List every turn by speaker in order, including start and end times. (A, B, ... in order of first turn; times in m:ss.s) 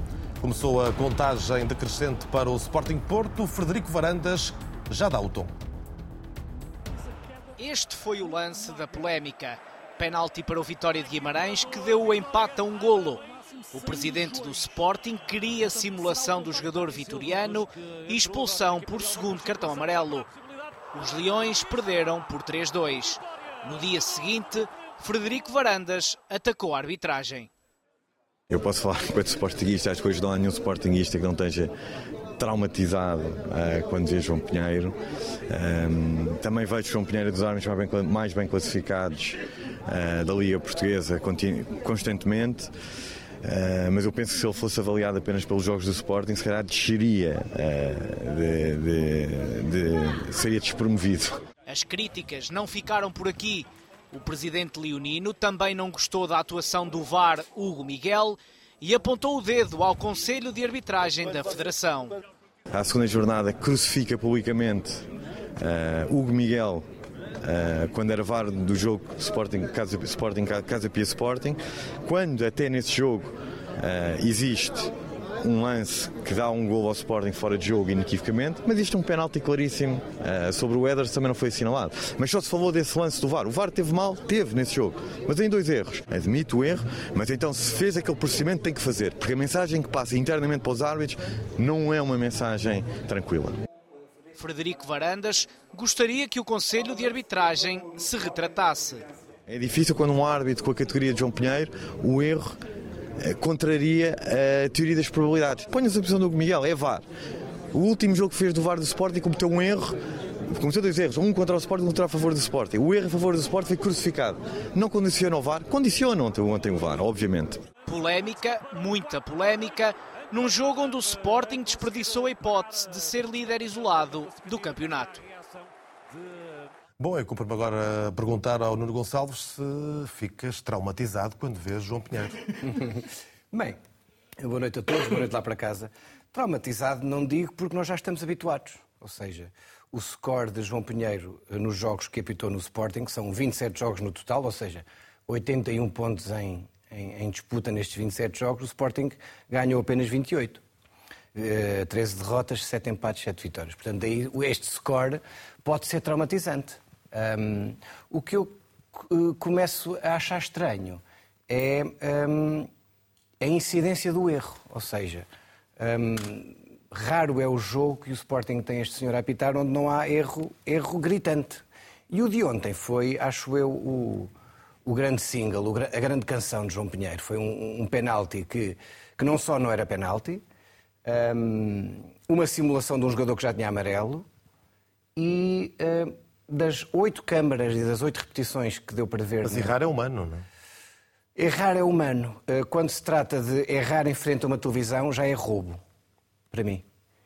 0:00.4-0:05.5 A
0:07.6-0:20.3 B
0:20.9-0:27.5 B
0:28.5-0:31.7 C
0:32.4-0:35.0 C
0:35.5-0:42.7 C
0:43.4-0:51.4 C
0:51.7-1:02.2 B
1:02.7-1:05.1 C
1:05.6-1:06.9 C
1:07.4-1:33.6 C
1:34.4-1:39.1 B
1:39.5-1:42.6 C
1:43.2-1:47.1 C
1:47.7-1:57.6 C
1:57.9-2:05.2 B
2:07.0-2:12.5 A
2:12.6-2:13.8 D
2:14.4-2:30.6 D
2:31.4-2:42.7 D
2:43.4-2:45.3 D
2:45.8-2:54.3 D
2:54.8-3:00.4 D
3:01.1-3:04.3 D
3:05.2-3:09.8 D
3:09.4-3:10.5 A
3:11.4-3:15.8 D
3:16.5-3:16.8 D